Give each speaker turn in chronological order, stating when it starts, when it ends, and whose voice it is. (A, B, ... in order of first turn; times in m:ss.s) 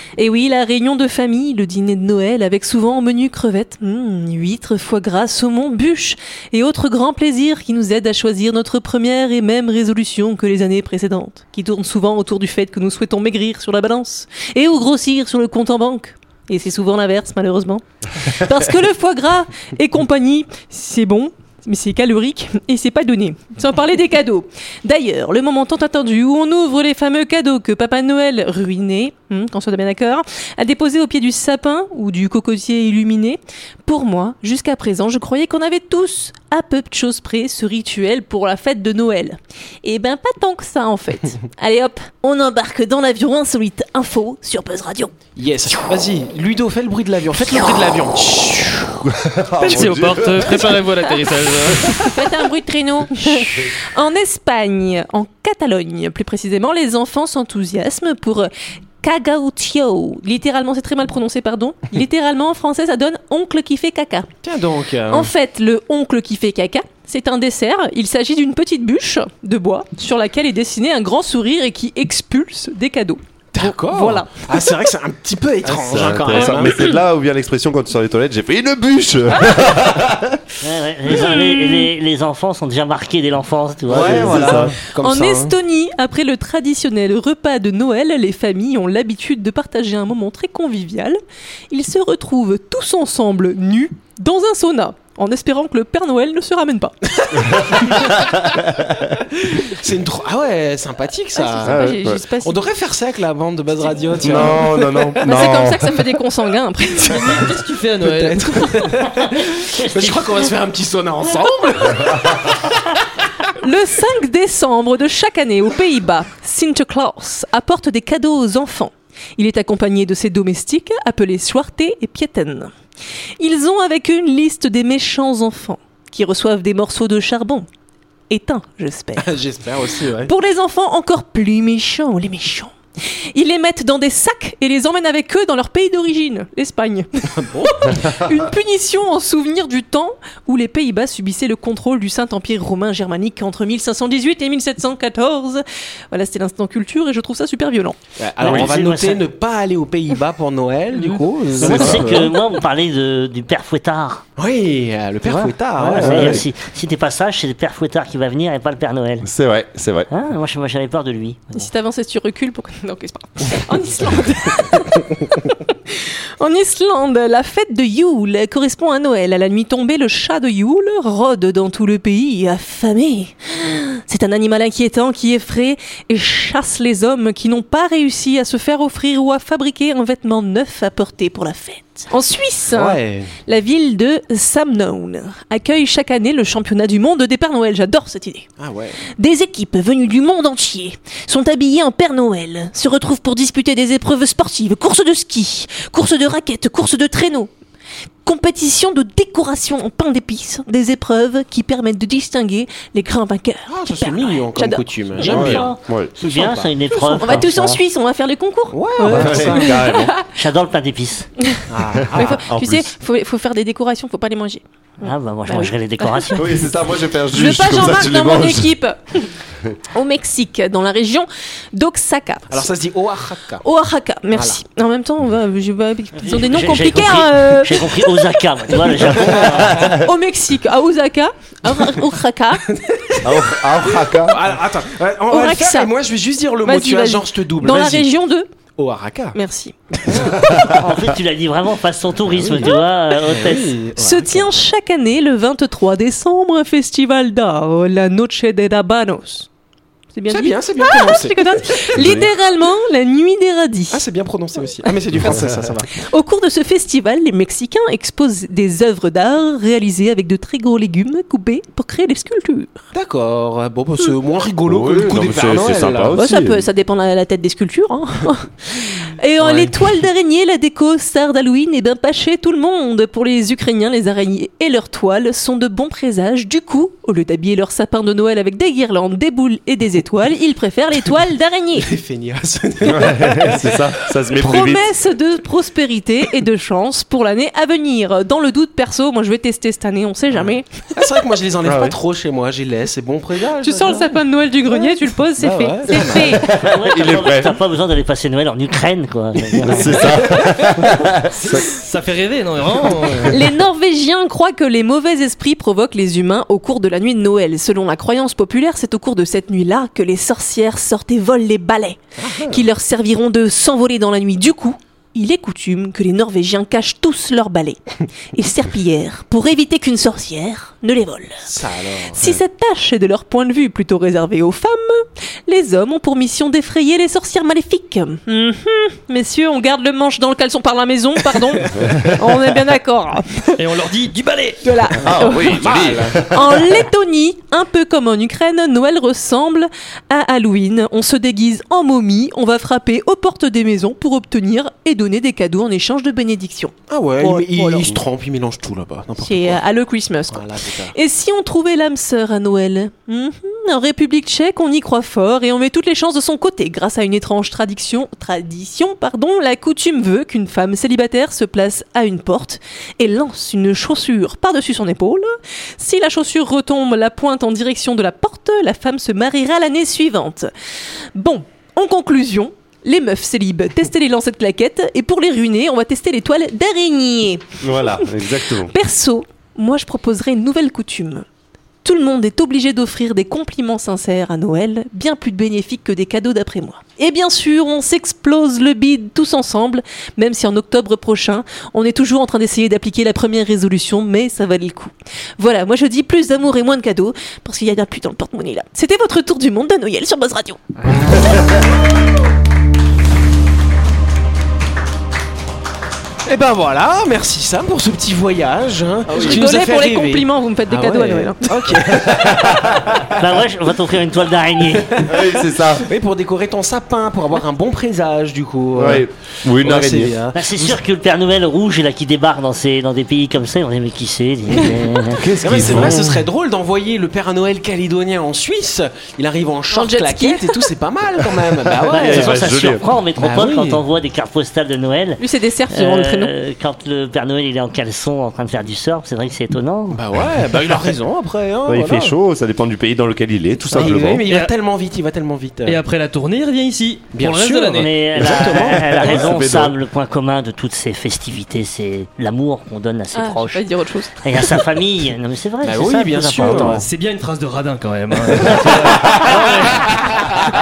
0:00.2-0:45.1 A
0:45.4-0:49.0 B
0:49.0-0:50.7 C
0:49.6-0:52.1 D
0:51.9-0:58.5 A
0:59.0-1:04.3 A
1:04.4-1:05.3 B
1:05.1-1:14.7 A
1:13.5-1:16.9 B
1:15.6-1:20.4 C
1:16.3-1:17.0 A
1:20.6-1:24.6 E
1:21.1-1:21.9 A
1:23.9-1:25.5 B
1:23.9-1:24.7 C
1:25.0-1:31.2 A
1:31.7-1:36.9 A
1:37.2-1:38.3 B
1:37.5-1:39.1 C
1:39.2-1:41.8 B
1:41.3-1:42.6 A
1:41.6-1:42.2 C
1:42.4-1:45.1 B
1:44.1-1:44.6 A
1:44.2-1:45.9 C
1:45.2-1:47.3 A
1:47.1-1:48.7 D
1:47.1-1:52.7 B
1:49.8-1:50.5 E
1:53.6-2:02.7 A
2:03.4-2:07.7 A
2:08.3-2:09.4 A
2:09.2-2:10.3 B
2:10.2-2:12.7 A
2:13.3-2:28.0 A
2:17.3-2:18.2 B
2:28.2-2:32.3 B
2:28.4-2:29.2 E
2:31.6-2:34.2 E
2:31.6-2:32.2 C
2:34.4-2:36.4 B
2:35.2-2:39.3 E
2:35.8-2:36.4 C
2:39.2-2:40.1 C
2:40.1-2:41.7 E
2:41.5-3:08.4 A
3:02.7-3:03.3 B
3:08.6-3:09.0 B
3:09.2-3:17.5 A
3:18.2-3:25.2 A
3:23.7-3:25.7 B
3:25.2-3:27.8 E
3:25.2-3:26.1 C
3:26.2-3:26.7 B
3:26.9-3:30.2 A
3:28.7-3:29.8 B
3:29.0-3:30.1 C
3:30.3-3:31.3 E
3:31.4-3:36.4 A
3:31.7-3:32.4 B
3:32.0-3:32.9 C
3:35.0-3:36.6 E
3:36.4-3:38.7 C
3:37.3-3:39.3 A
3:39.9-3:42.7 A
3:42.5-3:43.6 B
3:43.6-3:48.2 A
3:44.3-3:44.6 B
3:46.2-3:49.9 E
3:48.9-3:49.8 B
3:49.5-3:49.9 C
3:49.8-3:52.6 A
3:52.7-3:58.1 B
3:53.2-3:54.5 C
3:55.3-3:55.9 A
3:56.6-3:58.5 A
3:58.8-3:59.4 B
3:59.3-3:59.7 A
3:59.9-4:00.8 B
4:00.3-4:00.8 C
4:00.7-4:03.7 E
4:02.3-4:04.5 B
4:04.0-4:09.5 A
4:10.1-4:14.0 A
4:10.3-4:12.2 B
4:12.0-4:12.3 C
4:13.9-4:15.9 B
4:16.0-4:22.7 A
4:22.9-4:26.2 B
4:24.6-4:26.6 C
4:26.1-4:41.9 A
4:29.4-4:29.7 B
4:41.8-4:43.8 B
4:42.8-4:44.9 C
4:44.3-4:51.0 A
4:50.3-4:54.1 B
4:51.6-4:52.0 C
4:53.6-4:56.5 A
4:54.7-4:56.5 B
4:55.9-4:57.6 C
4:56.6-5:00.2 E
4:59.6-5:01.7 C
4:59.6-4:59.9 B
5:01.4-5:03.4 D
5:03.0-5:03.3 B
5:03.2-5:17.8 A
5:12.2-5:12.6 B
5:18.3-5:21.4 A
5:21.4-5:22.4 B
5:22.1-5:33.6 A
5:33.6-5:34.8 D
5:34.6-5:35.7 A
5:35.0-5:36.8 C
5:35.3-5:36.3 B
5:36.3-5:47.9 A
5:46.9-5:49.6 B
5:49.2-6:10.5 A
5:50.3-5:50.9 B
6:11.1-6:18.1 A
6:17.6-6:18.7 C
6:18.6-6:21.2 A
6:21.8-6:40.6 A
6:40.8-6:41.3 B
6:46.2-6:53.2 B
6:49.1-6:49.4 C
6:49.1-6:51.5 A
6:51.9-6:53.0 C
6:53.2-6:55.0 E
6:54.7-6:59.1 B
6:55.0-6:55.9 C
6:58.8-7:00.2 C
6:59.6-7:00.8 B
7:00.3-7:05.3 E
7:05.1-7:06.2 C
7:05.4-7:12.4 B
7:09.7-7:10.6 A
7:11.7-7:12.8 C
7:11.8-7:20.0 E
7:13.2-7:13.8 B
7:15.2-7:16.3 A
7:19.9-7:22.1 B
7:21.6-7:24.2 C
7:23.7-7:25.8 B
7:23.9-7:24.5 D
7:25.6-7:27.9 D
7:27.1-7:29.2 B
7:27.7-7:33.6 E
7:28.6-7:29.8 C
7:33.1-7:34.5 A
7:34.2-7:36.8 E
7:35.6-7:36.8 B
7:36.4-7:40.0 D
7:38.6-7:39.6 C